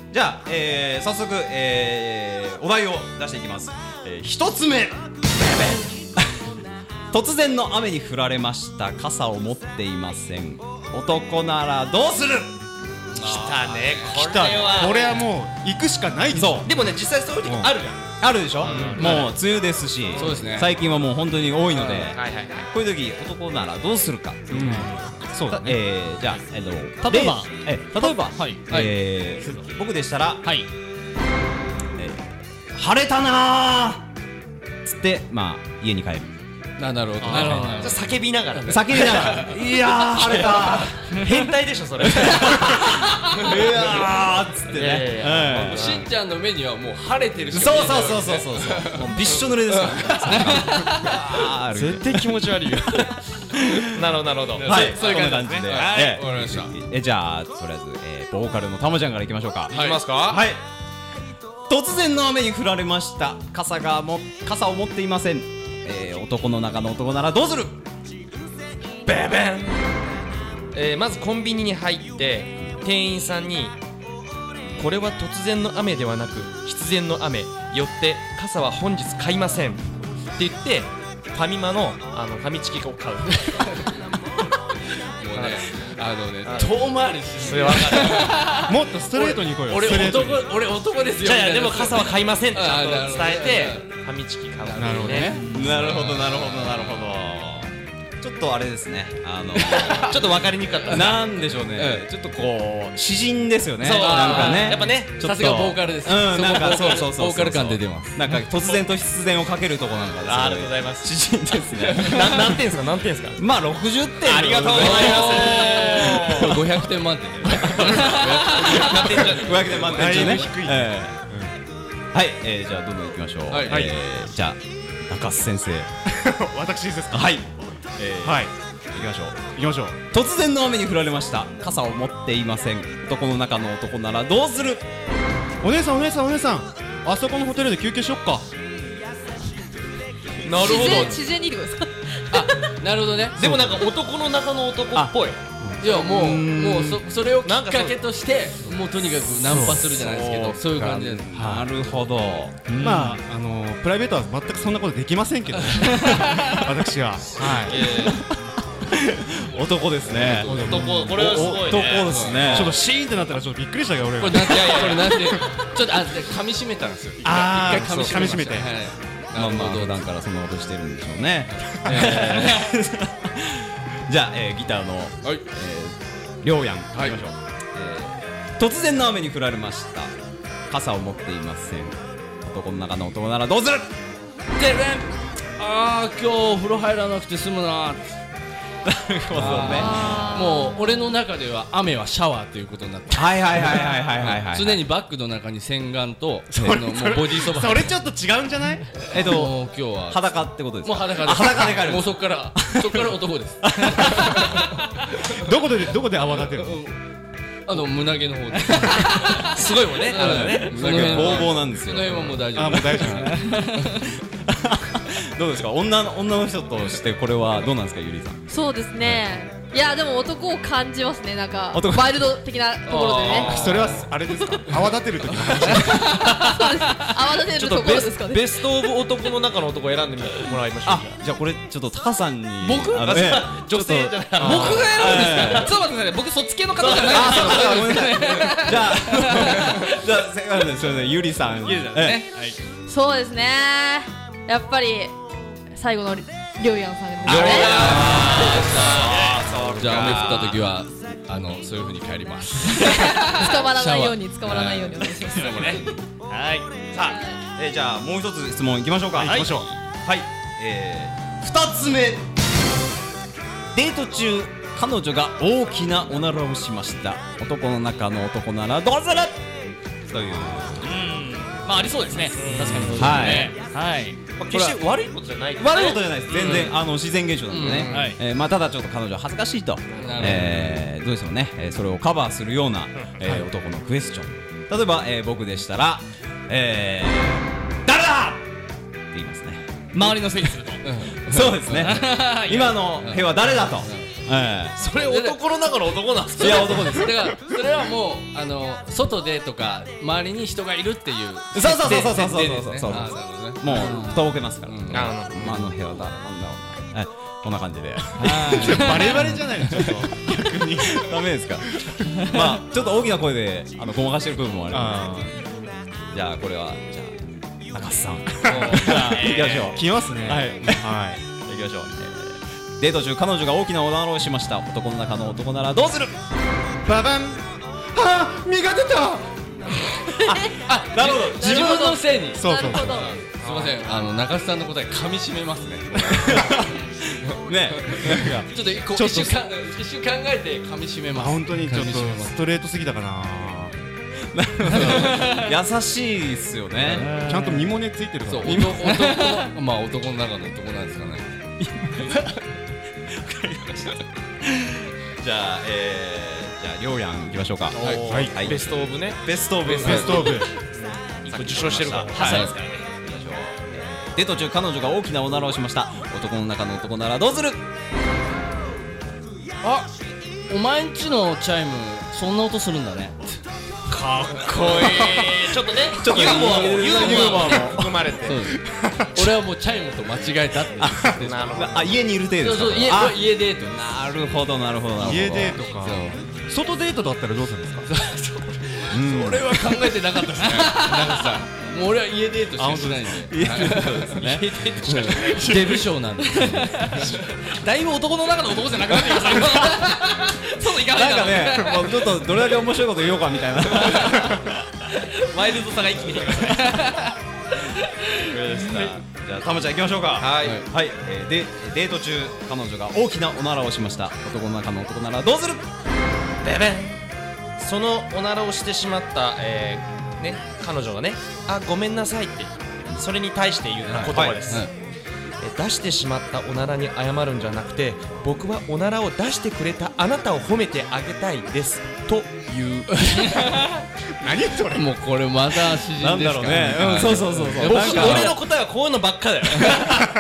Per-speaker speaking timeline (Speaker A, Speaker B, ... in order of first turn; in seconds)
Speaker A: 0.1-5.0, 7.1-12.6, 16.3-16.7, 18.2-24.9, 25.5-30.5, 32.0-34.1, 34.8-36.4, 37.3-37.9, 38.7-41.2, 42.1-46.0, 47.5-52.2, 54.6-60.6, 61.7-67.8, 95.4-100.3, 100.9-112.5, 113.4-116.6, 119.2-121.2, 122.1-125.9, 127.1-129.4, 130.1-134.9, 145.9-147.1, 149.9-152.9, 157.5-158.2, 158.9-162.8, 169.3-180.1, 180.7-183.9, 188.8-190.2, 193.1-194.8, 199.1-203.1, 203.6-204.6, 210.1-212.4, 214.5-218.4, 219.0-219.3, 221.7-222.3, 230.8-235.8, 236.8-242.2, 247.3-250.6, 256.9-262.2, 263.7-269.5, 270.1-270.9, 272.7-273.5, 274.5-288.4, 289.1-290.2, 291.2-294.9, 296.4-297.4, 301.5-315.3, 316.1-326.1, 330.2-332.2, 336.1-338.5, 344.3-347.1, 348.4-348.9, 351.6-352.2, 353.1-354.0, 355.2-360.5, 361.3-367.6, 376.0-377.9, 380.8-385.7, 388.9-389.6, 393.3-395.2, 400.9-404.6, 408.3-415.7, 424.0-424.6, 435.9-438.4, 439.6-439.9
Speaker B: 5.5-5.7, 13.2-15.2, 16.6-18.0, 18.6-19.3, 22.0-22.7, 37.8-42.8, 44.7-46.1, 51.7-53.1, 53.9-54.9, 59.7-60.4, 69.0-69.9, 70.7-73.8, 74.8-83.6, 85.3-85.9, 86.5-88.5, 91.2-95.3, 100.0-101.2, 103.8-105.2, 110.2-111.1, 112.0-113.4, 114.2-116.6, 118.1-120.3, 140.4-141.2, 143.4-145.4, 147.4-148.0, 157.7-158.1, 160.2-162.6, 164.6-165.0, 209.4-211.4, 222.9-223.9, 227.5-231.2, 233.0-235.7, 236.8-237.6, 241.7-242.4, 247.3-250.6, 272.3-272.8, 274.4-276.8, 277.6-278.1, 279.9-280.3, 294.8-296.9, 302.0-302.6, 304.9-305.6, 333.4-333.8, 357.8-360.1, 361.2-362.8, 373.9-378.4, 381.2-382.0, 410.2-410.6, 416.4-416.9, 417.6-424.6, 425.4-432.9, 437.6-439.9
Speaker C: 13.1-14.1, 18.7-19.3, 20.2-20.7, 21.7-22.1, 28.7-28.9, 36.8-38.0, 38.6-39.5, 45.2-50.5, 54.5-56.7, 59.7-60.1, 85.2-93.9, 94.6-96.5, 99.5-100.2, 101.8-102.1, 103.9-108.2, 114.6-120.5, 123.5-123.9, 142.3-143.4, 145.8-151.4, 155.6-155.9, 157.4-158.1, 160.1-162.7, 164.2-170.0, 171.5-172.7, 176.9-177.2, 184.5-188.1, 189.3-197.9, 199.1-204.2, 206.4-206.9, 207.7-209.5, 210.1-213.9, 222.9-224.1, 224.8-225.8, 232.6-233.3, 247.2-249.1, 249.7-253.1, 253.6-255.8, 272.6-273.3, 276.4-276.7, 277.5-277.9, 280.0-280.8, 290.8-292.1, 293.0-294.1, 294.9-295.4, 296.4-303.9, 304.6-305.2, 318.5-319.1, 330.7-336.6, 337.7-342.3, 348.3-351.3, 357.8-358.2, 359.8-360.2, 362.2-362.5, 369.6-369.9, 370.5-373.2, 377.2-377.6, 378.2-378.6, 379.1-381.8, 382.4-383.8, 385.8-386.2, 387.9-397.1, 423.9-424.7, 432.9-433.4, 434.7-438.4
Speaker D: 14.1-16.8, 17.4-17.7, 24.5-25.8, 37.2-37.6, 88.5-90.5, 94.8-96.0, 119.9-121.5, 123.7-123.9, 126.1-127.4, 128.2-128.5, 129.5-130.0, 135.6-138.5, 143.4-143.8, 145.6-145.9, 149.4-149.9, 151.3-151.7, 152.7-158.1, 160.4-161.6, 162.4-165.6, 167.2-168.7, 196.5-199.1, 205.3-206.9, 212.5-213.5, 223.5-226.2, 259.2-259.7, 308.2-311.1, 314.7-315.3, 318.3-321.2, 326.9-329.4, 332.4-333.2, 338.1-339.3, 341.2-343.7, 344.7-345.2, 347.0-348.8, 357.9-358.4, 359.7-360.5, 376.3-377.8, 378.5-379.3, 380.9-381.2, 385.0-387.9, 392.6-393.3, 395.2-395.8, 434.2-434.9
Speaker E: 27.0-28.6, 37.3-38.0, 152.8-153.2, 156.1-156.4, 208.7-209.4, 213.3-213.9, 234.4-240.0, 241.6-242.3, 253.1-253.6, 255.4-256.7, 270.8-274.2, 277.9-278.2, 289.9-290.9, 291.7-292.8, 303.7-304.2, 308.2-309.3, 344.8-345.5, 347.0-347.7, 348.9-349.5, 390.4-391.2, 396.4-402.4, 403.8-404.2, 405.0-407.1, 407.9-408.9
Speaker F: 140.6-142.8, 189.7-190.8, 218.5-223.5, 226.2-228.6, 242.9-245.1, 245.7-247.9, 252.8-256.0, 330.2-333.3